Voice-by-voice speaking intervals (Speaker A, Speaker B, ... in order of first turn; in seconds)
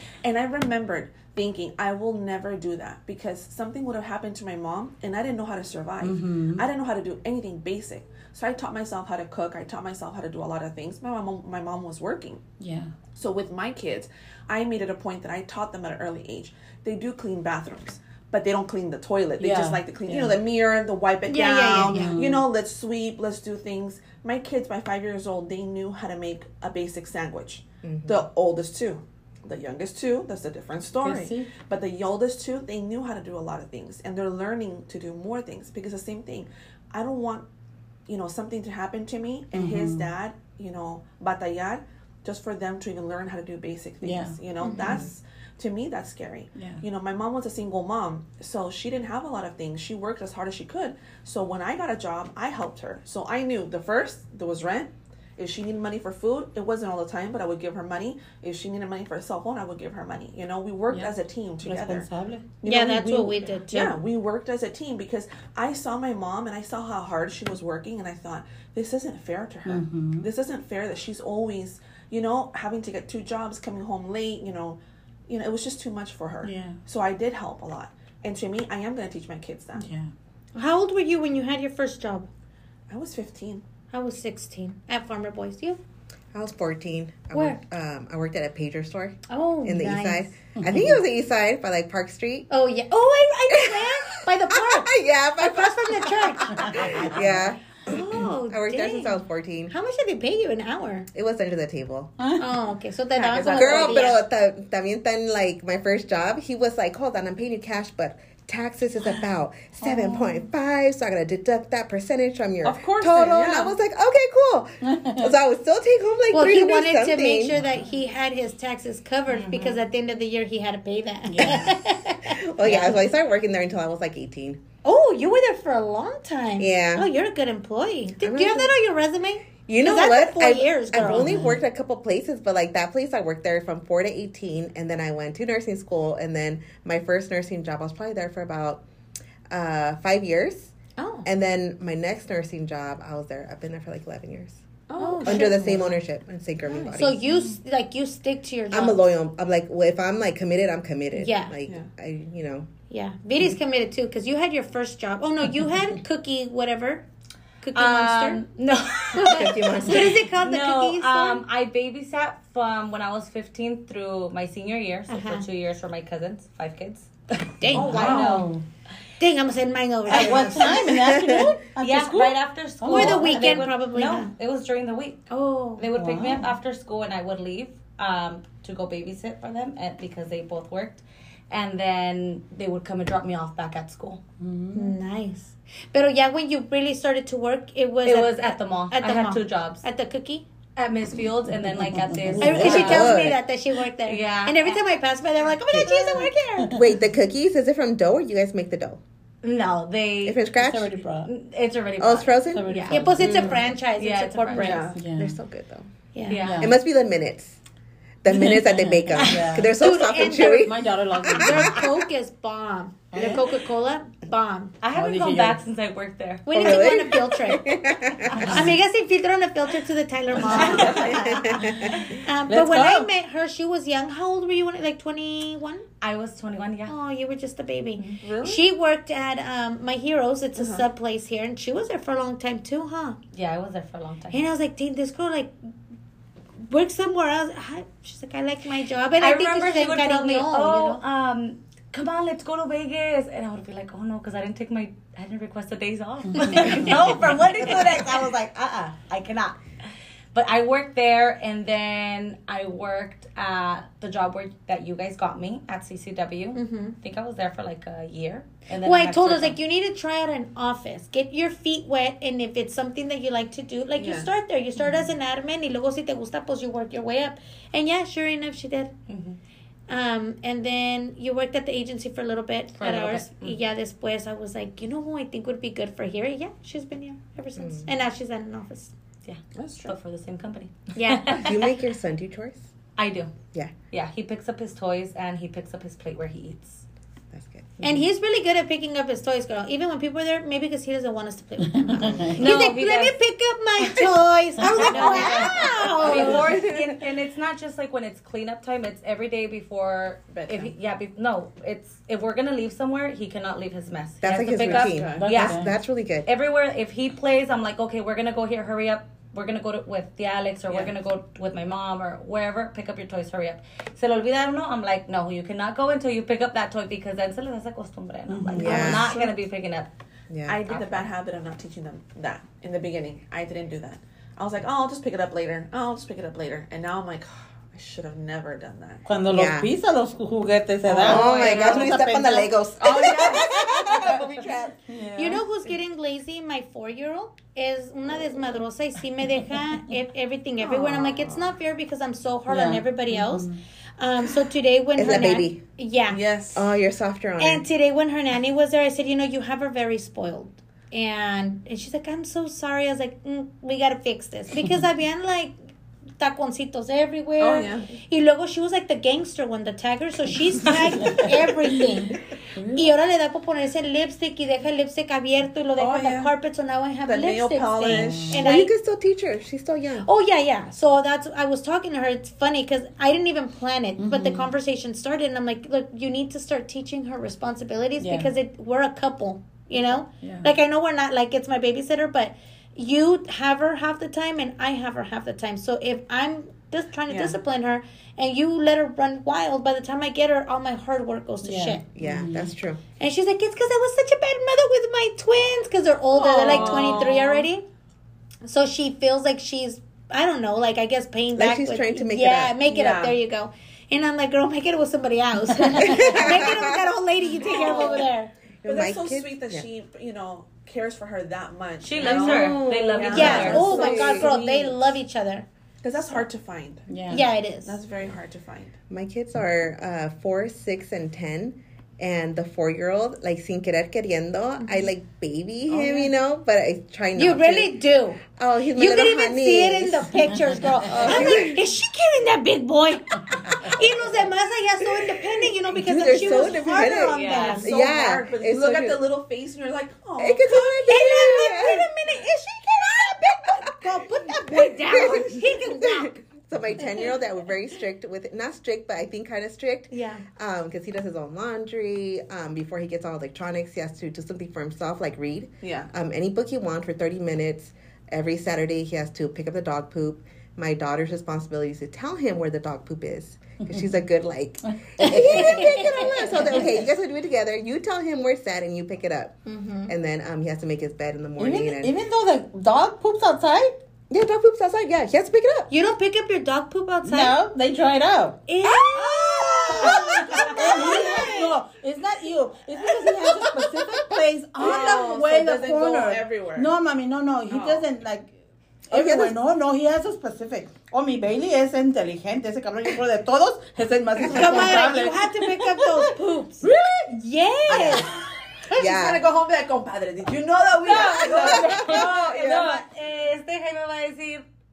Speaker A: 0.2-12.4, 13.2-37.5, 38.1-62.1, 62.6-79.9, 82.9-83.6, 103.2-104.2, 112.6-113.8, 144.9-145.8, 146.6-147.0, 167.7-168.5, 170.2-170.7, 204.6-205.0, 220.7-221.1, 228.2-228.6, 230.6-230.8, 264.0-264.3, 279.6-279.9, 300.3-300.7, 304.6-305.3, 318.6-319.3, 320.5-329.1, 330.9-332.0, 332.8-334.3, 340.6-341.5, 346.1-346.7, 357.4-357.9, 365.8-366.3, 367.1-368.4, 387.1-387.4, 396.1-397.5, 402.7-403.2, 407.4-408.1, 408.6-414.2, 415.8-418.8, 425.7-426.1, 430.9-431.4, 437.4-440.8, 455.6-455.9, 478.8-481.4, 484.6-486.7, 487.5-487.9, 498.6-502.2
Speaker B: 6.0-6.6, 12.6-12.9, 19.4-20.4, 21.8-22.4, 31.0-31.5, 39.5-40.1, 44.0-44.4, 46.5-46.8, 61.6-62.5, 69.7-70.3, 76.4-76.8, 79.8-80.1, 90.6-91.0, 96.5-97.4, 102.2-102.5, 109.8-110.5, 114.8-115.3, 117.5-117.8, 121.2-121.8, 122.7-122.9, 130.9-131.6, 147.3-147.6, 167.8-168.6, 170.1-173.7, 175.9-176.5, 184.4-184.9, 191.5-193.1, 200.6-201.3, 202.5-203.7, 205.0-205.4, 206.4-206.8, 208.3-209.7, 210.6-211.7, 213.1-213.4, 214.9-215.6, 218.3-218.7, 222.5-223.1, 246.3-247.1, 291.7-292.4, 294.6-295.6, 305.2-305.7, 318.3-319.1, 329.1-332.5, 334.9-335.4, 342.5-343.6, 367.9-368.4, 374.0-374.5, 378.0-378.3, 380.2-380.5, 391.4-392.5, 405.6-406.2, 416.9-417.2, 433.3-433.8, 465.0-466.6, 471.4-473.8, 477.0-478.4, 479.7-488.3, 488.9-495.9, 496.6-497.1, 501.4-502.8
Speaker C: 21.3-22.1, 44.6-45.1, 62.6-64.0, 80.5-82.3, 83.9-85.8, 87.3-87.6, 89.3-90.3, 92.5-97.1, 97.9-99.2, 99.7-101.1, 102.4-104.2, 116.3-122.4, 124.8-131.4, 141.0-141.3, 145.0-145.9, 146.9-149.0, 151.1-151.5, 152.9-157.1, 157.6-158.4, 159.8-161.4, 165.1-165.5, 167.6-168.3, 169.2-170.9, 172.9-174.3, 175.3-175.9, 184.7-190.4, 192.4-196.8, 202.7-205.0, 206.1-206.5, 209.2-210.8, 211.3-214.8, 216.5-217.8, 218.4-225.9, 226.9-233.2, 234.3-235.6, 236.6-241.0, 246.6-247.1, 256.5-257.0, 258.8-268.9, 269.9-278.9, 280.9-281.5, 287.8-296.5, 335.2-346.2, 347.4-355.6, 356.2-362.2, 362.7-368.7, 370.0-391.8, 393.0-397.6, 398.4-408.3, 413.1-415.5, 417.1-417.8, 424.6-424.9, 427.1-428.2, 428.7-437.7, 440.5-446.1, 446.8-447.2, 449.9-450.2, 465.3-466.6, 469.5-469.9, 475.7-477.4, 478.5-481.6, 494.3-498.1
Speaker D: 27.8-28.2, 86.3-92.5, 93.5-99.7, 101.1-102.1, 103.5-117.7, 121.4-124.6, 126.6-127.1, 128.2-128.7, 129.7-138.8, 139.5-140.7, 141.2-144.6, 145.2-147.2, 148.7-152.7, 159.2-160.3, 170.7-171.5, 192.5-193.4, 195.7-199.0, 200.2-200.9, 202.0-203.0, 205.0-205.9, 206.6-207.6, 208.2-211.9, 216.5-218.7, 221.0-222.1, 277.6-277.9, 281.4-282.7, 287.3-288.1, 291.9-292.4, 295.0-297.0, 304.2-306.3, 318.6-319.2, 320.3-320.6, 329.3-329.7, 331.0-334.8, 345.0-345.6, 346.5-347.6, 368.2-370.1, 391.9-392.8, 401.4-402.6, 405.8-406.8, 407.6-407.9, 408.6-409.6, 412.0-414.3, 418.9-431.6, 435.0-439.0, 440.2-441.9, 444.4-471.9, 474.1-475.7, 488.9-489.3, 497.7-498.2, 498.8-499.2, 501.0-502.2
Speaker E: 119.3-119.8, 157.8-168.5, 171.8-175.2, 175.8-184.2, 188.1-189.8, 190.8-193.3, 194.0-194.8, 199.4-200.4, 201.2-205.0, 206.3-206.7, 214.8-216.9, 226.0-226.9, 233.3-234.5, 239.2-249.6, 250.3-259.6, 269.1-269.4, 272.8-273.6, 279.2-281.7, 283.0-283.3, 283.9-286.8, 292.4-293.2, 294.9-305.7, 306.2-319.9, 320.7-321.0, 411.8-415.0, 436.9-437.6, 500.9-504.5